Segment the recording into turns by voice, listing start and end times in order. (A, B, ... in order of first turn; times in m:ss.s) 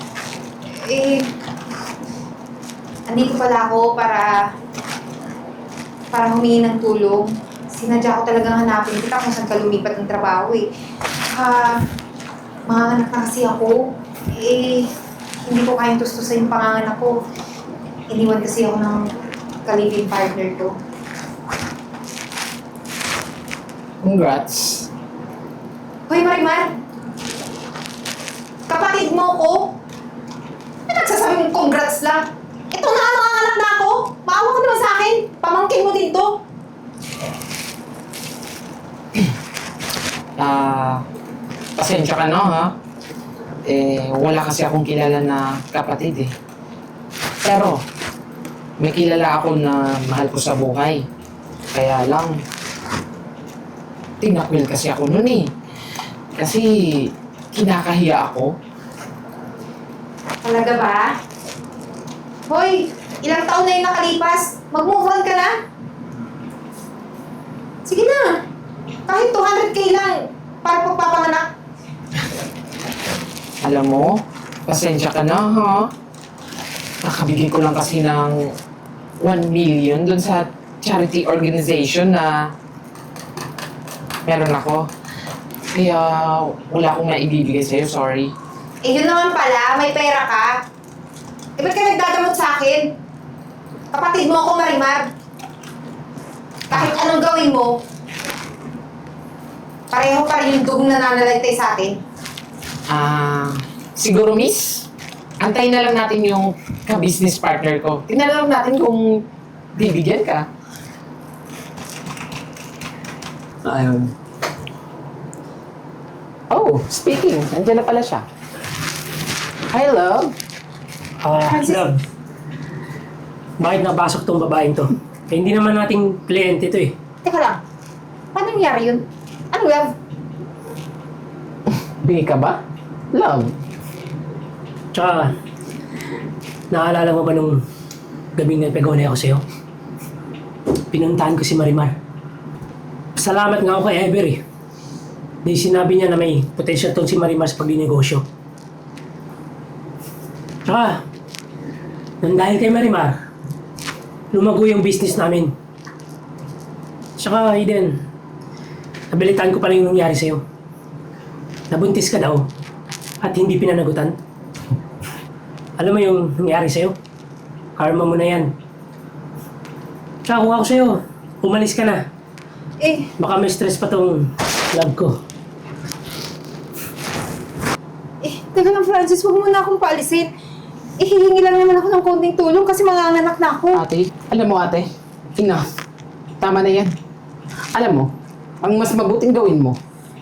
0:00.7-0:01.3 A
0:03.1-0:04.4 A
0:06.1-0:10.7 A
0:11.3-0:11.8 A
0:12.7-0:14.9 A
0:15.4-0:17.2 A
0:18.1-0:20.8 A
0:24.0-0:24.9 B
0:26.1-0:26.8 A
0:28.7-0:29.8 A
0:30.9-0:36.4 A
0:40.4-0:41.0 B
0:41.8-0:42.7 B
0:43.6-0:46.3 B
0:47.4-0:47.8 B
0:48.8-0:51.0 B
0:51.7-0:52.4 B
0:54.2-0:55.5 B
0:56.3-0:58.5 B
1:00.4-1:01.1 A
1:02.5-1:05.5 A
1:07.8-1:08.4 A
1:09.1-1:11.5 A
1:13.6-1:14.1 B
1:14.7-1:15.9 B
1:17.0-1:18.5 B
1:19.2-1:22.4 B
1:24.2-1:24.8 B
1:25.7-1:28.3 B
1:28.8-1:30.5 A
1:31.6-1:32.9 A
1:33.9-1:35.1 A
1:36.7-1:37.8 A
1:39.9-1:42.0 A
1:42.9-1:44.9 B
1:45.4-1:49.2 B
1:49.8-1:50.4 B
1:53.6-1:54.1 B
1:56.5-1:58.2 B
1:59.7-2:00.3 B
2:01.2-2:02.0 C
2:01.5-2:01.8 A
2:03.6-2:06.9 C
2:07.2-2:07.6 A
2:08.3-2:09.9 A
2:11.8-2:12.6 B
2:13.1-2:13.5 B
2:14.9-2:15.3 C
2:16.7-2:17.6 C
2:18.3-2:19.4 C
2:20.9-2:21.9 C
2:23.2-2:24.4 C
2:25.4-2:28.2 C
2:30.6-2:31.0 C
2:32.2-2:33.1 C
2:34.3-2:35.5 C
2:37.2-2:37.9 C
2:39.1-2:40.4 C
2:41.7-2:42.4 C
2:43.2-2:44.2 C
2:45.8-2:46.9 C
2:47.8-2:48.5 C
2:50.2-2:52.0 C
2:52.8-2:53.1 A
2:53.2-2:55.2 C
2:58.2-3:00.3 A
3:01.0-3:03.8 A
3:03.7-3:05.8 B
3:06.4-3:06.9 B
3:07.7-3:09.8 B